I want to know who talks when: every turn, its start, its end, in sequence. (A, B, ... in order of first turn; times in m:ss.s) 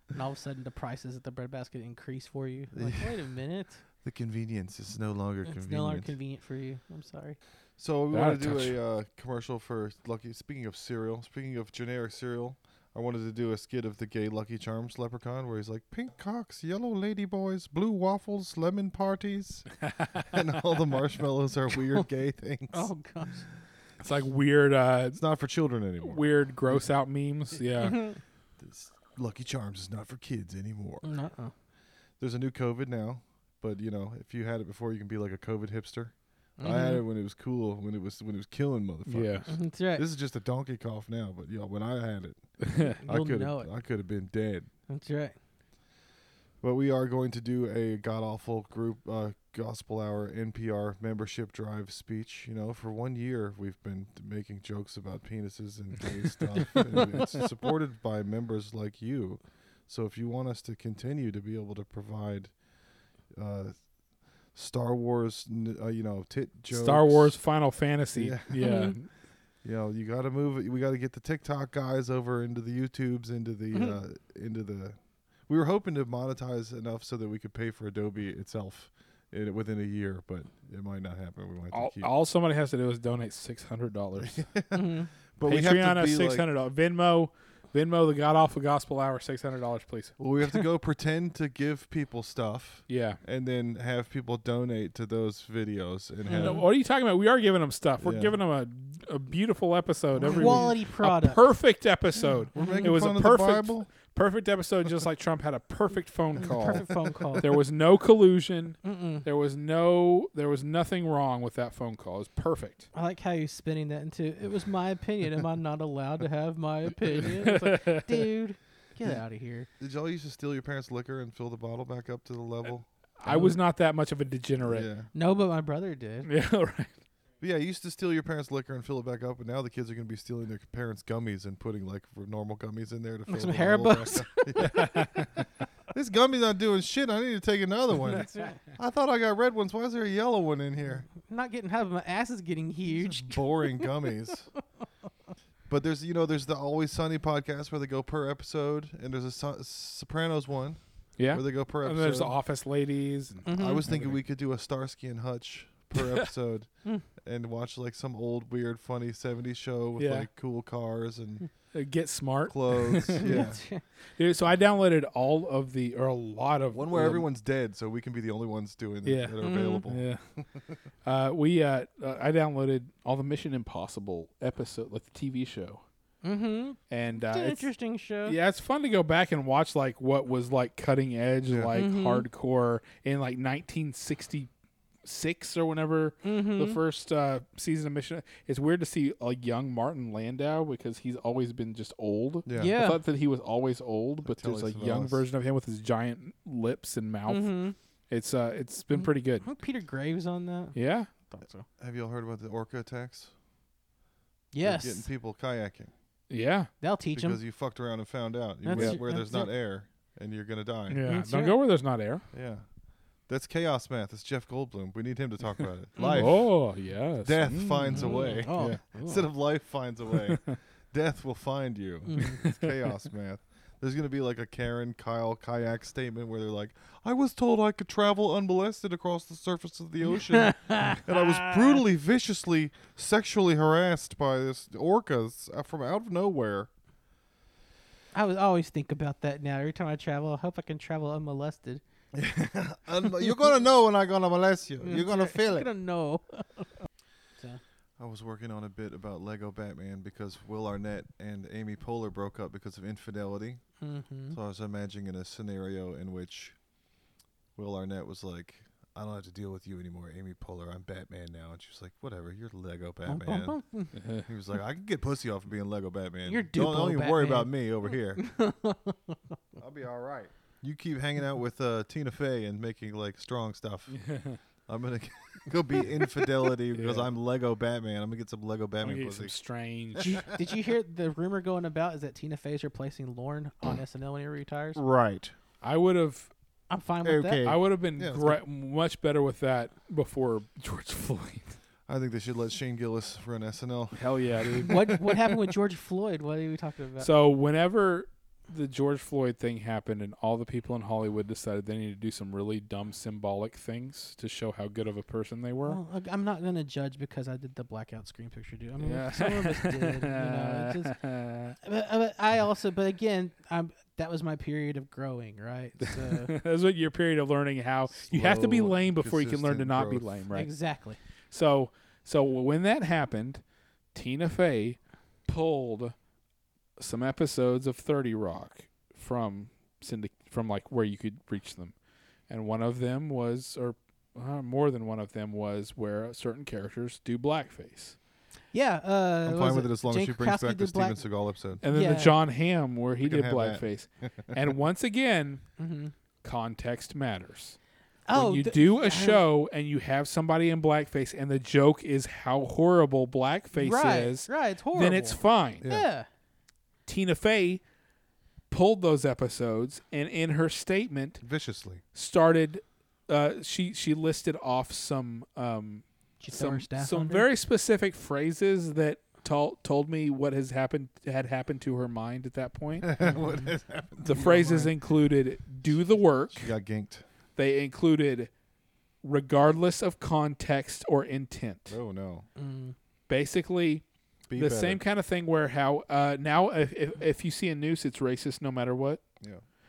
0:00.1-0:03.8 A
0:02.7-0:03.2 B
0:04.0-0:06.1 B
0:05.4-0:07.4 A
0:07.8-0:22.9 B
0:08.1-0:08.8 C
0:22.7-0:23.5 A
0:24.0-0:25.2 C
0:25.1-0:26.9 B
0:26.0-0:28.0 C
0:27.8-0:28.2 A
0:28.6-0:31.0 B
0:31.0-0:31.5 A
0:32.2-0:44.7 B
0:36.6-0:37.0 A
0:39.0-0:39.5 C
0:39.5-0:40.0 A
0:42.6-0:43.0 C
0:42.8-0:43.7 A
0:44.9-0:45.4 A
0:46.6-1:02.5 B
1:03.3-1:03.7 B
1:04.5-1:07.4 B
1:06.7-1:09.1 C
1:08.1-1:08.5 B
1:08.6-1:09.0 A
1:09.6-1:22.1 B
1:21.7-1:24.4 C
1:24.2-1:26.4 B
1:24.7-1:25.1 A
1:25.4-1:30.1 C
1:30.2-1:36.7 B
1:32.9-1:33.2 C
1:36.2-1:36.6 A
1:36.4-1:52.9 C
1:38.0-1:38.4 B
1:40.2-1:40.7 B
1:40.2-1:41.4 A
1:42.6-1:43.1 A
1:42.6-1:43.9 B
1:46.4-1:47.4 A
1:48.8-1:49.2 A
1:52.9-1:59.7 A
1:57.2-1:58.2 C
1:59.8-2:02.9 B
2:03.2-2:04.9 C
2:03.3-2:03.6 A
2:04.6-2:05.1 B
2:05.1-2:06.3 A
2:06.3-2:06.9 C
2:07.4-2:15.3 B
2:13.3-2:15.3 A
2:14.7-2:15.2 C
2:15.9-2:21.1 B
2:18.0-2:18.6 A
2:21.2-2:24.1 A
2:23.0-2:24.5 B
2:25.7-2:32.3 B
2:31.2-2:34.2 C
2:33.4-2:33.8 A
2:33.5-2:41.5 B
2:36.0-2:36.2 C
2:40.0-2:40.3 C
2:41.7-2:43.5 C
2:42.5-2:43.6 B
2:43.2-2:43.8 A
2:44.2-2:47.2 C
2:46.7-2:50.1 B
2:49.0-2:50.2 C
2:49.4-2:49.8 A
2:51.0-2:55.8 C
2:56.2-2:58.4 A
2:56.9-2:57.7 C
2:58.2-3:04.5 C
3:01.7-3:02.3 A
3:05.0-3:17.6 C
3:06.2-3:06.8 A
3:12.4-3:12.8 B
3:12.6-3:13.0 A
3:14.2-3:15.2 B
3:17.3-3:17.8 A
3:18.1-3:19.5 C
3:18.9-3:21.7 A
3:20.7-3:21.1 C
3:21.8-3:23.3 B
3:24.5-3:25.1 A
3:24.6-3:25.9 B
3:26.3-3:26.7 C
3:26.8-3:27.4 A
3:27.1-3:31.0 B
3:28.6-3:29.5 A
3:28.7-3:29.0 C
3:30.9-3:32.2 C
3:31.0-3:31.6 A
3:32.3-3:32.6 B
3:33.3-3:36.7 B
3:36.0-3:36.3 A
3:36.0-3:38.8 C
3:37.2-3:56.7 B
3:37.9-3:39.3 A
3:40.1-3:40.6 C
3:42.0-3:42.4 A
3:42.2-3:42.7 C
3:50.3-3:51.8 A
3:58.1-4:01.8 A
4:02.1-4:05.7 B
4:04.8-4:06.8 A
4:08.0-4:13.6 B
4:13.8-4:14.4 A
4:14.3-4:16.6 B
4:17.6-4:23.6 B
4:23.0-4:23.9 A
4:24.0-4:24.3 C
4:24.2-4:28.2 B
4:26.3-4:27.5 A
4:28.2-4:29.3 A
4:29.6-4:39.3 B
4:33.9-4:34.4 C
4:36.7-4:37.1 C
4:38.8-4:40.3 C
4:40.0-4:40.2 B
4:40.0-4:44.8 A
4:44.8-4:45.3 B
4:45.6-4:46.3 C
4:46.7-4:47.5 A
4:47.0-4:48.4 B
4:47.4-4:51.6 C
4:51.9-4:55.1 B
4:53.9-4:55.1 C
4:54.6-4:57.1 A
4:57.0-5:05.8 C
5:05.6-5:11.0 A
5:08.8-5:11.6 C
5:11.6-5:16.3 A
5:15.9-5:20.5 C
5:18.0-5:20.2 B
5:20.3-5:21.0 A
5:21.3-5:23.4 C
5:23.9-5:25.9 C
5:26.8-5:31.7 C
5:32.3-5:38.0 C
5:38.5-5:41.0 A
5:39.2-5:41.6 B
5:41.6-5:45.4 C
5:41.7-5:42.1 A
5:43.0-5:44.4 B
5:45.6-5:45.9 A
5:46.2-5:47.6 C
5:48.1-5:49.2 A
5:48.1-5:55.6 C
5:53.5-5:56.1 A
5:55.6-5:55.9 B
5:56.9-5:57.6 C
5:58.5-6:01.2 C
6:01.2-6:01.8 B
6:01.9-6:12.9 C
6:06.2-6:07.3 A
6:12.8-6:14.8 B
6:13.0-6:13.5 A
6:14.0-6:16.5 C
6:15.7-6:17.0 B
6:17.4-6:18.3 C
6:19.0-6:21.8 C
6:21.7-6:22.3 B
6:22.4-6:22.7 A
6:23.1-6:29.0 C
6:24.3-6:24.8 B